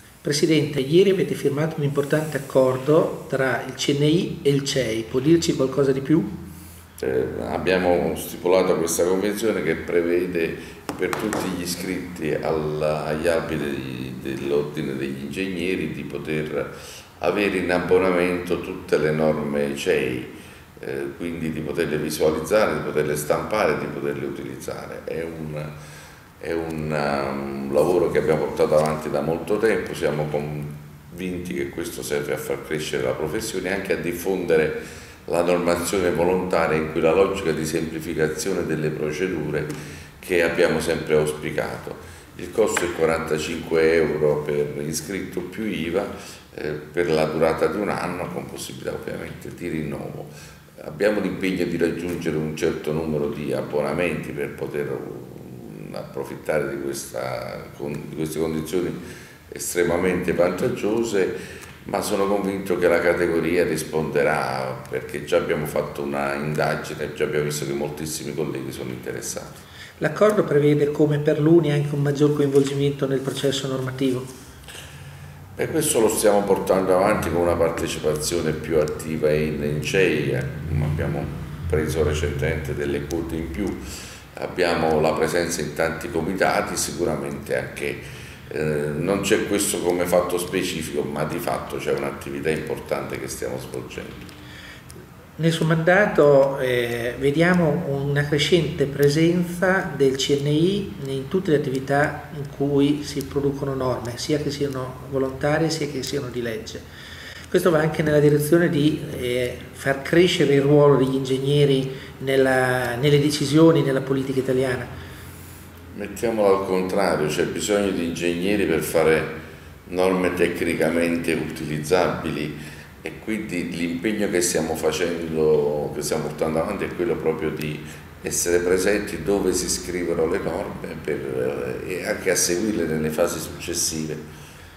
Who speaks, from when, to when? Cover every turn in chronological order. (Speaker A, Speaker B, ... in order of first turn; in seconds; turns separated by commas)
Speaker A: 0.2-6.3, Speaker B: 7.0-25.7, Speaker B: 26.4-69.6, Speaker A: 70.0-74.3, Speaker B: 75.5-83.8, Speaker B: 84.3-94.3, Speaker A: 95.4-106.8, Speaker A: 107.5-114.9, Speaker B: 115.9-119.3, Speaker B: 119.8-134.2